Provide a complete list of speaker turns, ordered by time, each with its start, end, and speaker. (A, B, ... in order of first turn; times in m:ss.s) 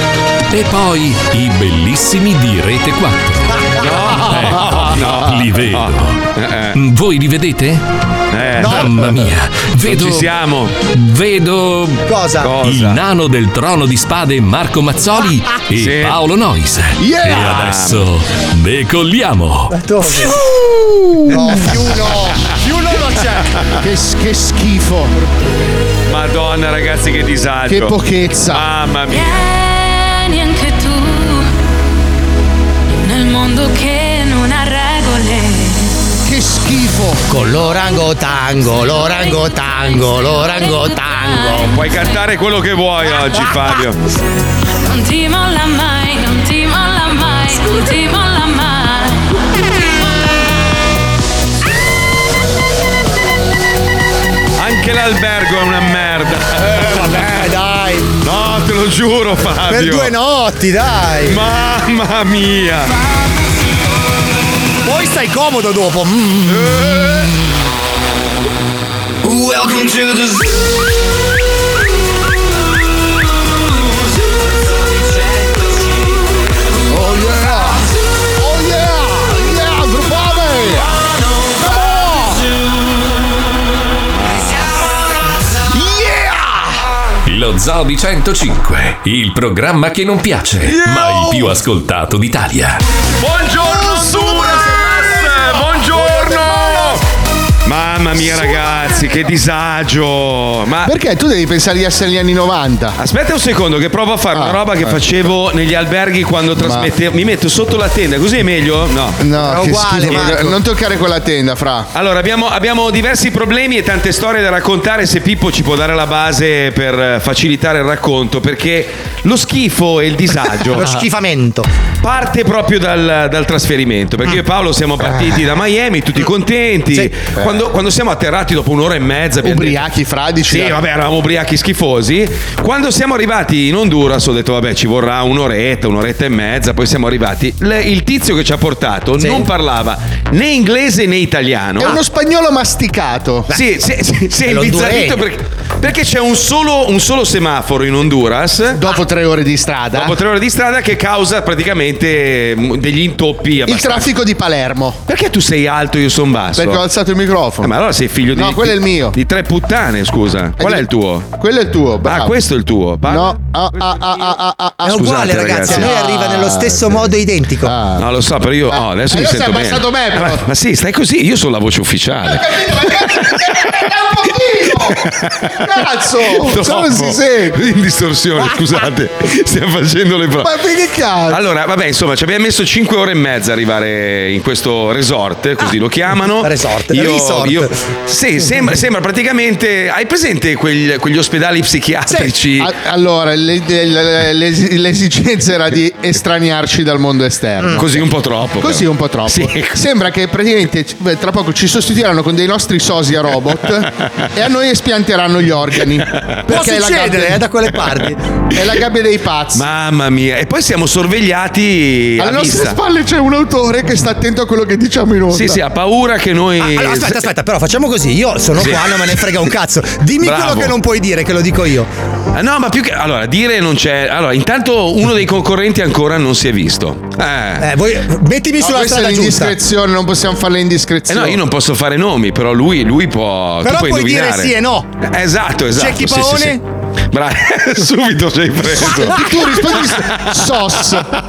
0:00.5-0:06.2 A
0:03.5-0:04.1 B
0:03.8-0:06.8 C
0:06.7-0:07.8 A
0:08.3-0:09.1 C
0:08.6-0:09.2 B
0:08.6-0:10.4 A
0:09.8-0:10.7 C
0:10.9-0:12.0 A
0:12.1-0:12.5 B
0:12.4-0:13.0 C
0:12.6-0:19.7 A
0:15.8-0:16.2 C
0:17.0-0:17.6 D
0:17.3-0:18.0 C
0:19.7-0:20.4 B
0:21.2-0:21.8 D
0:21.3-0:23.4 B
0:23.8-0:25.2 D
0:26.1-0:28.0 C
0:27.7-0:28.6 D
0:28.5-0:29.4 C
0:29.1-0:31.5 E
0:33.0-0:36.0 E
0:36.2-0:37.2 D
0:37.3-0:41.7 B
0:41.7-0:44.0 C
0:44.8-0:50.7 E
0:54.6-0:57.4 C
0:56.8-0:58.1 B
0:58.2-1:00.1 C
0:59.7-1:01.4 B
1:01.3-1:02.9 C
1:04.8-1:06.7 B
1:06.5-1:07.3 C
1:16.9-1:17.8 D
1:18.4-1:20.9 D
1:21.6-1:22.4 D
1:24.1-1:24.8 C
1:25.7-1:26.7 D
1:27.3-1:32.8 A
1:33.2-1:37.0 C
1:33.7-1:36.9 B
1:37.6-1:40.9 C
1:40.9-1:43.0 D
1:43.0-1:49.2 C
1:44.4-1:45.0 D
1:46.6-1:46.9 D
1:49.2-1:51.9 D
1:49.4-1:50.6 B
1:51.9-2:01.0 C
2:00.7-2:01.7 B
2:02.0-2:09.9 C
2:09.4-2:10.8 D
2:10.5-2:22.0 C
2:19.2-2:19.5 B
2:21.8-2:23.5 D
2:23.5-2:28.8 C
2:24.5-2:25.2 B
2:28.8-2:30.2 D
2:29.9-2:34.1 C
2:33.7-2:35.0 D
2:35.1-2:36.8 C
2:36.6-2:37.7 D
2:37.6-2:41.3 C
2:38.3-2:39.2 D
2:40.6-2:42.4 D
2:42.0-2:43.4 C
2:43.0-2:47.1 D
2:44.8-2:47.7 B
2:44.9-2:46.0 C
2:47.6-2:48.0 D
2:48.0-2:53.4 C
2:48.7-2:50.4 D
2:52.2-2:55.0 D
2:54.8-2:55.7 C
2:55.6-2:57.6 D
2:56.2-3:00.5 C
3:00.4-3:01.4 D
3:01.3-3:12.7 C
3:06.4-3:07.7 B
3:12.6-3:18.1 D
3:17.8-3:19.8 C
3:18.6-3:27.4 D
3:26.5-3:28.2 B
3:28.5-3:29.6 D
3:29.5-3:32.8 C
3:32.2-3:35.6 D
3:35.3-3:37.3 C
3:36.6-3:41.9 B
3:38.6-3:39.5 C
3:40.2-3:40.8 C
3:42.3-3:47.7 C
3:47.6-3:49.6 B
3:48.6-3:51.4 D
3:51.1-3:56.6 C
3:53.6-3:54.9 B
3:55.8-3:56.6 B
3:57.1-4:00.2 C
3:58.7-4:01.1 D
3:58.8-3:59.6 B